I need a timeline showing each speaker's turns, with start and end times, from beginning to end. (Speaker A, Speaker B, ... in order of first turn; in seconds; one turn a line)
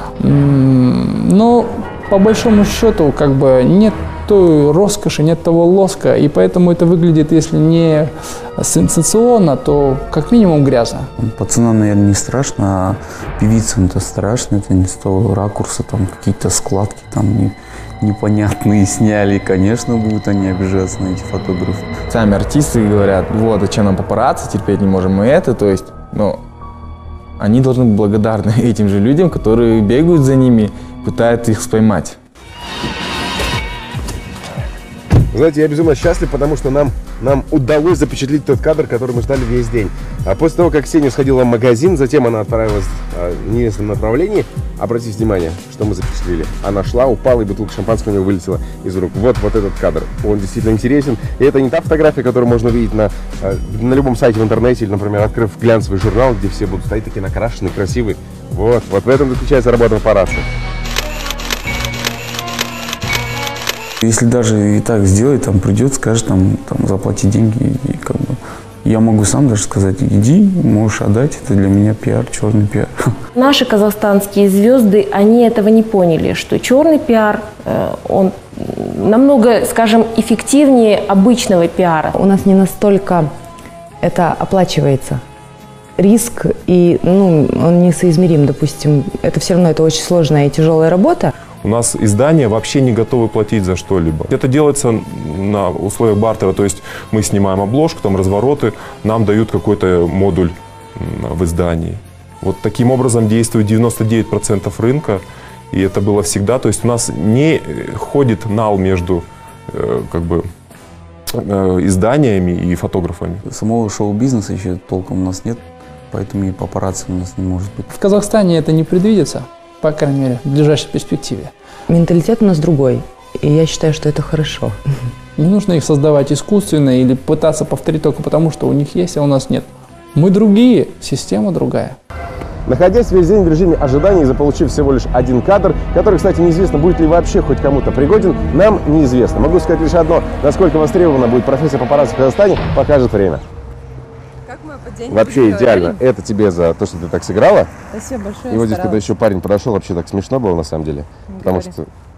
Speaker A: 0.2-11.1
Speaker B: 11.2-22.0
Speaker C: 22.1-26.4
Speaker C: 27.4-32.2
Speaker D: 35.3-60.5
Speaker B: 64.0-72.9
Speaker E: 73.3-82.1
Speaker F: 82.2-83.3
Speaker F: 84.0-85.2
Speaker F: 86.0-91.3
Speaker G: 91.6-110.5
Speaker G: 111.3-113.4
Speaker B: 113.4-117.9
Speaker A: 117.9-121.5
Speaker F: 121.9-124.8
Speaker A: 125.4-132.0
Speaker D: 132.7-143.4
Speaker H: 144.7-146.0
Speaker D: 145.1-147.7
Speaker H: 147.9-149.0
Speaker D: 148.5-151.8
Speaker H: 151.3-151.7